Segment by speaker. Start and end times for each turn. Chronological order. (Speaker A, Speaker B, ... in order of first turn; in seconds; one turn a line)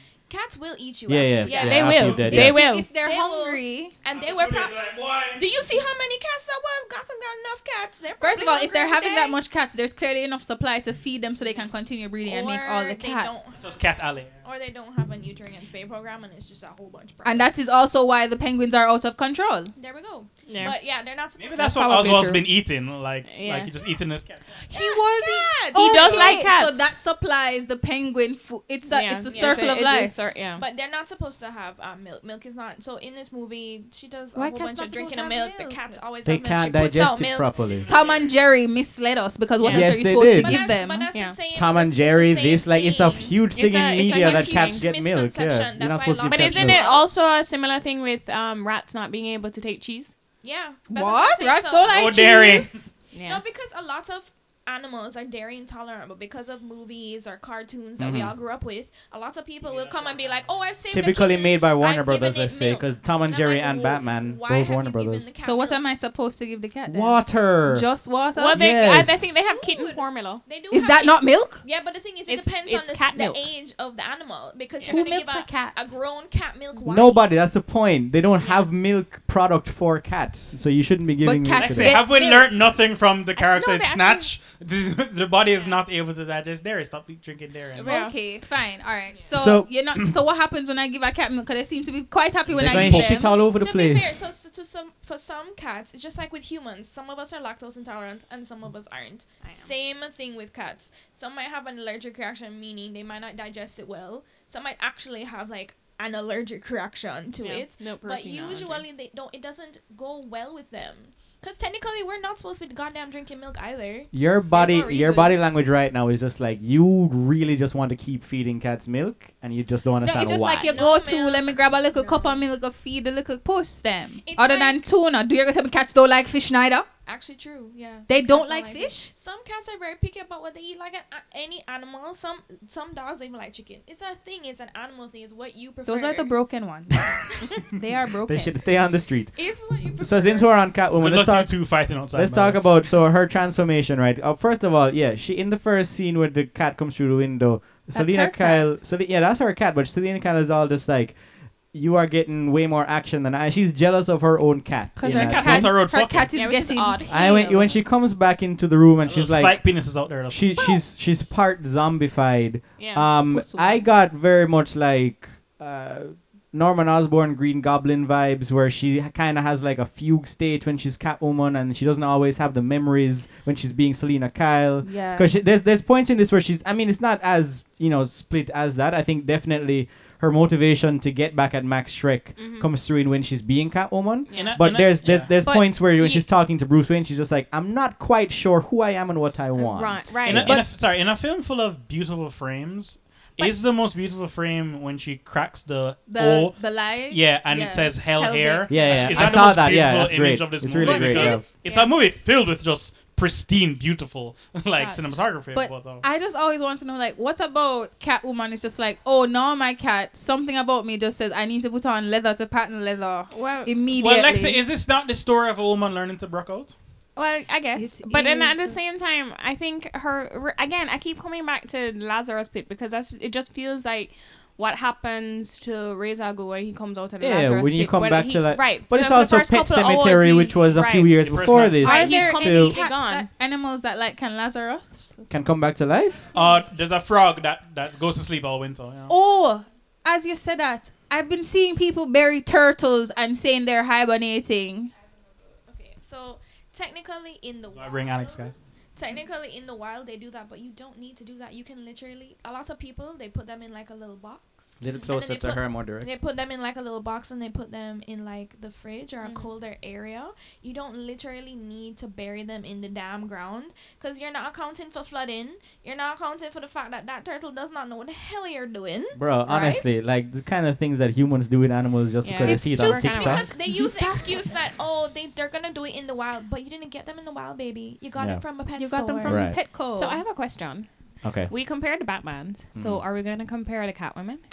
Speaker A: 0.3-2.2
Speaker B: 1.1-2.6
Speaker C: 1.4-2.9
Speaker D: 2.2-4.0
Speaker A: 3.0-4.8
Speaker E: 4.1-5.5
Speaker A: 5.3-9.4
Speaker D: 8.2-13.6
Speaker A: 12.2-13.8
Speaker E: 13.6-14.4
Speaker A: 14.4-17.5
Speaker D: 17.2-19.7
Speaker A: 19.8-21.8
Speaker C: 20.5-20.7
Speaker E: 21.4-24.6
Speaker D: 21.6-22.4
Speaker C: 23.3-23.7
Speaker D: 24.7-30.1
Speaker A: 24.7-26.5
Speaker C: 25.7-26.9
Speaker C: 28.9-30.6
Speaker A: 29.3-29.7
Speaker A: 30.6-38.3
Speaker D: 34.3-36.0
Speaker B: 36.2-37.9
Speaker D: 37.9-41.1
Speaker C: 39.6-40.0
Speaker B: 39.7-40.6
Speaker A: 39.9-43.4
Speaker B: 41.5-46.8
Speaker C: 43.5-44.9
Speaker A: 44.0-47.0
Speaker C: 46.3-50.1
Speaker A: 50.4-52.6
Speaker D: 50.9-52.9
Speaker E: 51.9-52.9
Speaker C: 53.1-53.4
Speaker A: 53.2-65.8
Speaker B: 58.0-58.4
Speaker E: 59.6-60.8
Speaker B: 60.9-65.3
Speaker D: 65.4-68.6
Speaker B: 66.9-67.9
Speaker C: 68.3-70.4
Speaker B: 68.5-69.3
Speaker A: 69.5-77.2
Speaker D: 70.7-71.6
Speaker C: 72.3-73.5
Speaker C: 74.8-75.1
Speaker D: 74.9-76.0
Speaker B: 76.8-82.0
Speaker C: 78.4-78.7
Speaker D: 81.2-82.5
Speaker E: 81.5-87.9
Speaker C: 83.3-84.3
Speaker C: 87.8-88.2
Speaker D: 87.8-93.4
Speaker B: 89.3-89.7
Speaker E: 92.5-93.1
Speaker B: 92.6-94.3
Speaker A: 93.4-115.4
Speaker C: 99.4-99.7
Speaker C: 107.4-108.9
Speaker B: 114.1-120.8
Speaker D: 120.0-126.9
Speaker A: 120.6-122.4
Speaker A: 124.2-124.8
Speaker A: 127.0-136.3
Speaker D: 128.1-129.1
Speaker D: 135.9-138.6
Speaker B: 138.3-139.5
Speaker A: 139.3-140.5
Speaker B: 140.0-151.2
Speaker E: 141.0-142.8
Speaker D: 147.9-148.8
Speaker B: 151.7-155.8
Speaker D: 155.0-157.1
Speaker E: 155.1-156.3
Speaker C: 156.3-157.8
Speaker B: 157.1-190.6
Speaker E: 159.1-160.5
Speaker C: 162.8-163.1
Speaker D: 163.3-163.9
Speaker D: 174.8-175.3
Speaker C: 182.4-182.7
Speaker C: 184.3-184.8
Speaker E: 184.3-185.3
Speaker C: 185.4-186.3
Speaker C: 189.6-190.6
Speaker E: 190.2-206.1
Speaker D: 196.1-199.3
Speaker B: 198.7-201.4
Speaker D: 200.8-201.4
Speaker C: 201.6-201.9
Speaker C: 204.7-205.1
Speaker D: 205.5-214.6
Speaker C: 213.3-213.7
Speaker E: 213.9-216.8
Speaker C: 217.2-233.3
Speaker D: 217.7-218.8
Speaker B: 227.2-232.8
Speaker E: 231.2-232.2
Speaker D: 231.8-235.3
Speaker B: 235.3-236.3
Speaker E: 236.3-239.1
Speaker A: 236.3-236.6
Speaker D: 239.1-244.9
Speaker A: 245.7-269.8
Speaker E: 247.7-248.6
Speaker B: 254.8-256.1
Speaker C: 259.2-259.5
Speaker B: 269.1-273.4
Speaker C: 272.2-273.4
Speaker D: 272.4-274.5
Speaker A: 273.1-279.4
Speaker B: 278.2-278.4
Speaker D: 278.7-280.2
Speaker B: 279.2-279.6
Speaker C: 279.9-280.9
Speaker B: 281.2-281.5
Speaker C: 281.4-284.4
Speaker B: 282.7-283.0